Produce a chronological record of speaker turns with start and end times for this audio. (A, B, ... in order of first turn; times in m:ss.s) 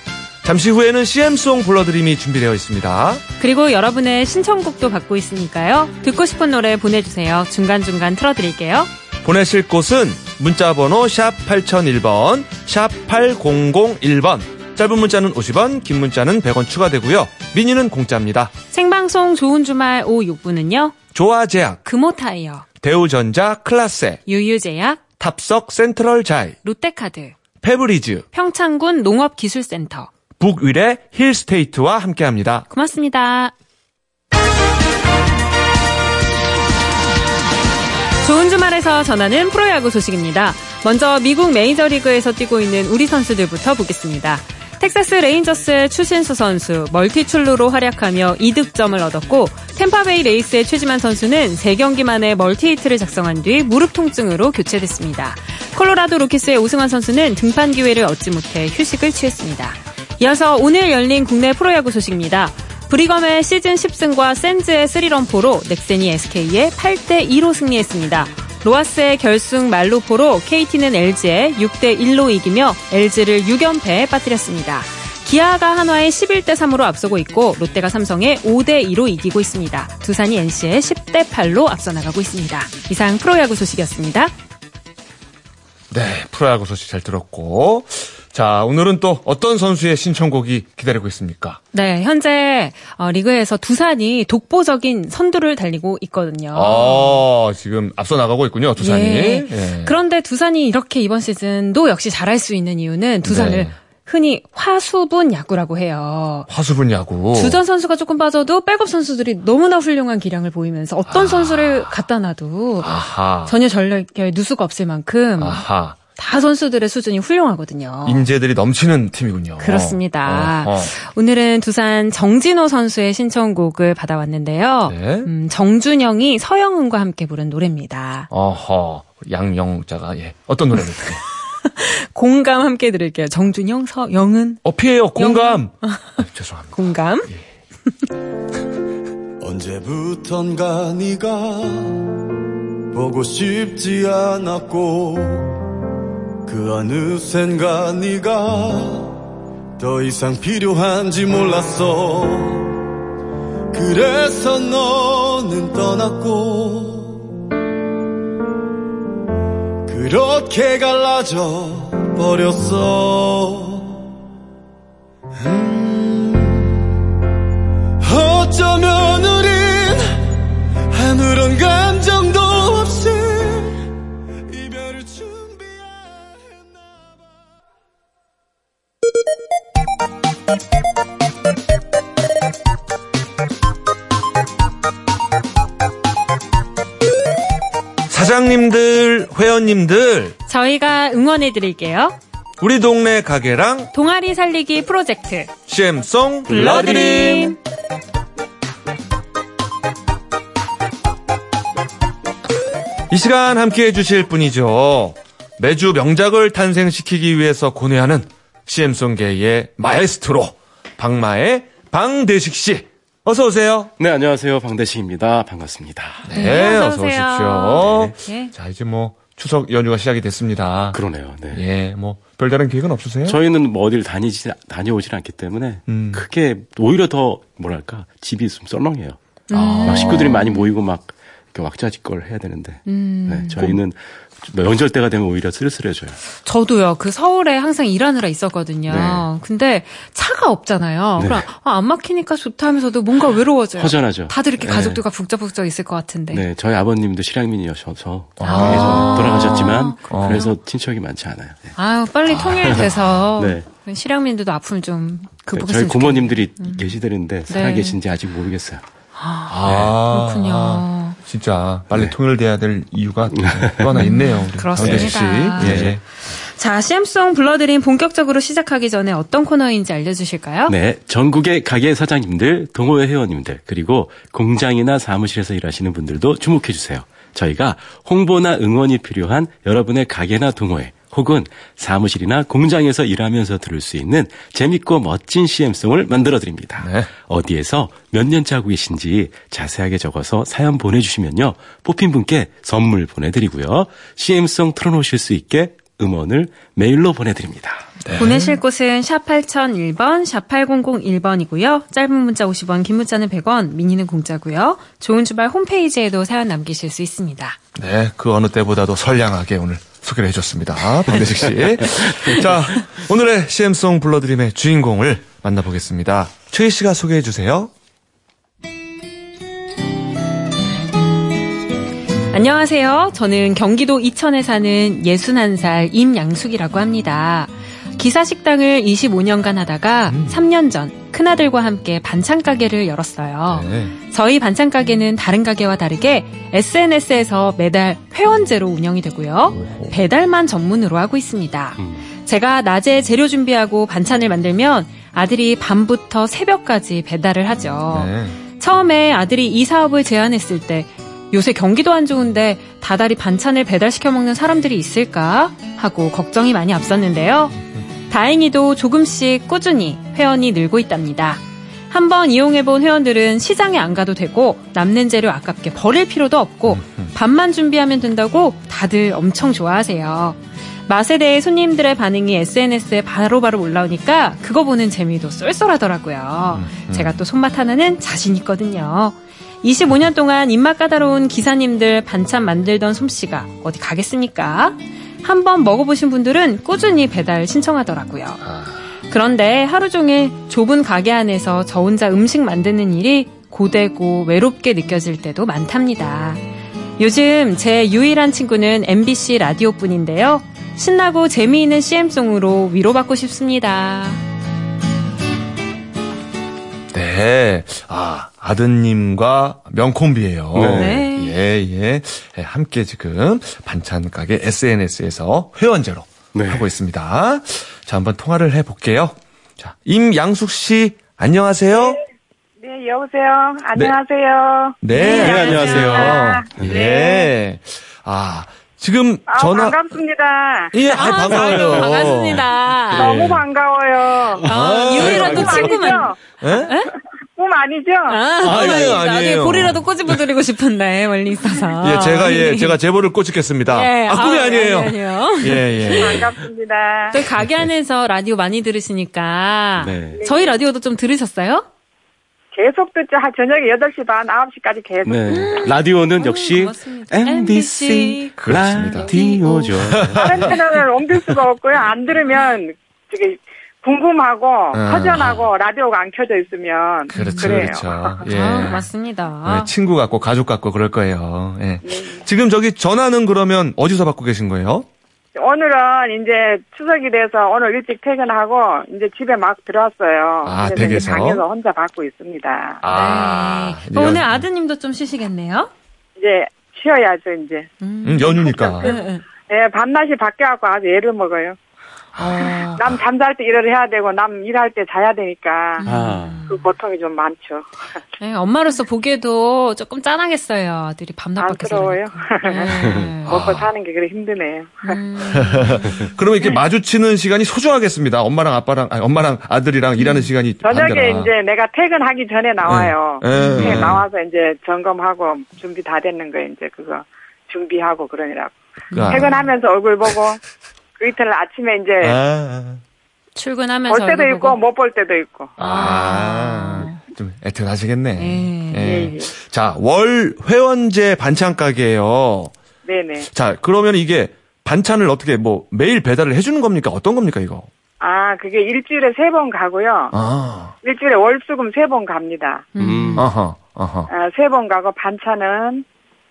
0:00.4-0:03.2 A
0:03.4-0:08.9 B
0:09.2-0:18.5 A
0:18.7-0:21.0 B
0:21.1-0:21.8 A
0:21.8-0:22.6 B
0:22.8-0:24.2 A
0:24.2-0:25.0 B
0:25.2-0:26.6 A
0:26.6-0:27.3 B
0:27.6-0:28.2 A
0:28.3-0:30.1 B
0:30.4-0:32.6 A
0:32.7-0:33.5 B
0:38.2-1:24.3 B
1:25.9-1:31.6 A
1:31.7-1:37.2 B
1:36.5-1:40.0 A
1:38.8-1:46.5 B
1:43.2-1:43.7 A
1:46.5-1:47.6 A
1:47.3-1:55.6 B
1:51.1-1:52.0 A
1:52.8-1:53.5 A
1:55.4-1:56.0 A
1:56.2-1:58.3 B
1:58.0-2:00.9 A
1:59.6-2:08.3 B
2:04.9-2:05.3 A
2:08.3-2:11.2 A
2:11.6-2:14.6 B
2:14.6-2:16.7 A
2:15.1-2:17.3 B
2:19.4-2:22.1 C
2:22.9-2:25.6 C
2:26.4-2:29.2 C
2:29.8-2:32.7 C
2:33.7-2:37.3 C
2:39.8-2:44.0 C
2:45.4-2:46.8 C
2:48.0-2:50.0 C
2:50.9-2:53.8 C
2:54.5-2:57.4 C
3:08.1-3:10.4 A
3:10.5-3:12.2 B
3:12.6-3:13.9 A
3:13.9-3:15.5 B
3:15.7-3:17.6 A
3:16.5-3:17.6 B
3:16.5-3:16.8 D
3:23.1-3:33.9 A
3:34.0-3:36.3 D
3:36.2-3:41.0 A
3:36.3-3:38.5 B
3:37.8-3:38.1 D
3:40.9-3:41.6 D
3:41.5-3:43.4 A
3:43.2-3:49.2 D
3:45.9-3:46.2 A
3:49.5-3:50.7 B
3:49.5-3:50.4 A
3:49.8-3:56.2 D
3:52.8-3:53.8 B
3:56.4-4:06.4 B
3:58.9-3:59.3 D
4:01.2-4:01.4 D
4:03.8-4:05.0 D
4:06.3-4:11.8 D
4:08.4-4:10.4 A
4:08.4-4:10.5 B
4:11.8-4:16.9 B
4:12.3-4:12.9 A
4:13.4-4:13.6 D
4:15.5-4:18.8 D
4:17.5-4:18.0 B
4:19.2-4:21.2 B
4:19.5-4:26.0 A
4:23.4-4:24.0 D
4:24.0-4:30.7 B
4:24.8-4:26.0 D
4:30.7-4:57.8 D
4:46.8-4:47.1 A
4:58.0-4:58.6 A
4:58.2-5:07.6 B
5:07.7-5:17.7 A
5:22.3-5:57.6 B
5:30.1-5:30.4 A
5:33.5-5:33.9 A
5:39.5-5:40.0 A
5:47.9-5:48.4 A
5:58.1-6:28.4 B
6:06.7-6:07.1 A
6:16.5-6:17.2 A
6:28.4-6:28.8 A
6:29.1-6:36.4 B
6:37.0-6:44.2 B
6:46.9-7:02.0 A
6:50.5-6:51.0 D
6:50.7-6:51.3 B
6:56.3-6:56.7 D
7:01.7-7:02.0 E
7:02.6-7:04.8 E
7:04.8-7:09.8 A
7:04.9-7:06.2 B
7:05.0-7:06.8 D
7:05.9-7:07.3 E
7:09.3-7:10.8 E
7:10.7-7:13.4 A
7:10.9-7:13.1 B
7:11.5-7:11.8 E
7:12.9-7:14.4 E
7:14.4-7:16.0 D
7:14.4-7:15.7 A
7:14.5-7:16.9 B
7:15.0-7:16.2 E
7:16.4-7:16.7 A
7:17.4-7:18.2 E
7:18.1-7:22.8 B
7:18.4-7:19.8 A
7:18.4-7:19.0 D
7:21.8-7:26.3 A
7:23.7-7:26.2 B
7:25.9-7:27.2 E
7:27.1-7:31.6 B
7:29.8-7:30.2 D
7:30.1-7:30.6 E
7:32.5-7:35.5 E
7:35.0-7:40.5 D
7:35.3-7:38.4 B
7:38.4-7:39.1 A
7:38.9-7:39.8 B
7:39.7-7:40.5 A
7:40.1-7:48.2 E
7:44.7-7:45.5 A
7:47.1-7:47.6 B
7:47.1-7:48.8 A
7:48.2-7:49.7 B
7:49.4-7:54.9 A
7:51.8-7:52.2 E
7:55.4-8:02.8 E
8:00.4-8:01.4 A
8:02.8-8:04.4 A
8:02.9-8:05.7 B
8:06.2-8:07.7 E
8:07.8-8:09.2 B
8:08.0-8:09.0 A
8:08.3-8:11.6 E
8:12.2-8:13.0 A
8:12.2-8:12.8 B
8:12.7-8:15.8 E
8:15.8-8:16.7 B
8:15.8-8:16.4 D
8:16.5-8:17.7 E
8:18.2-8:23.3 B
8:21.4-8:25.0 E
8:22.8-8:23.1 D
8:23.2-8:23.7 A
8:24.8-8:26.5 B
8:25.2-8:31.3 A
8:30.0-8:30.3 B
8:30.6-8:38.5 E
8:32.6-8:34.0 A
8:33.3-8:33.8 B
8:38.9-8:39.3 B
8:38.9-8:39.3 A
8:39.1-8:40.4 E
8:41.0-8:42.2 E
8:42.0-8:42.8 A
8:43.4-8:44.6 B
8:43.9-8:45.6 E
8:45.6-8:47.0 B
8:45.6-8:52.5 A
8:48.2-8:49.1 B
8:48.8-8:49.3 E
8:52.8-8:53.3 E
8:53.3-8:57.7 A
8:58.0-9:00.1 E
9:00.1-9:00.7 A
9:00.8-9:02.7 E
9:02.7-9:03.3 B
9:02.8-9:03.3 D
9:03.2-9:04.1 A
9:04.1-9:05.8 E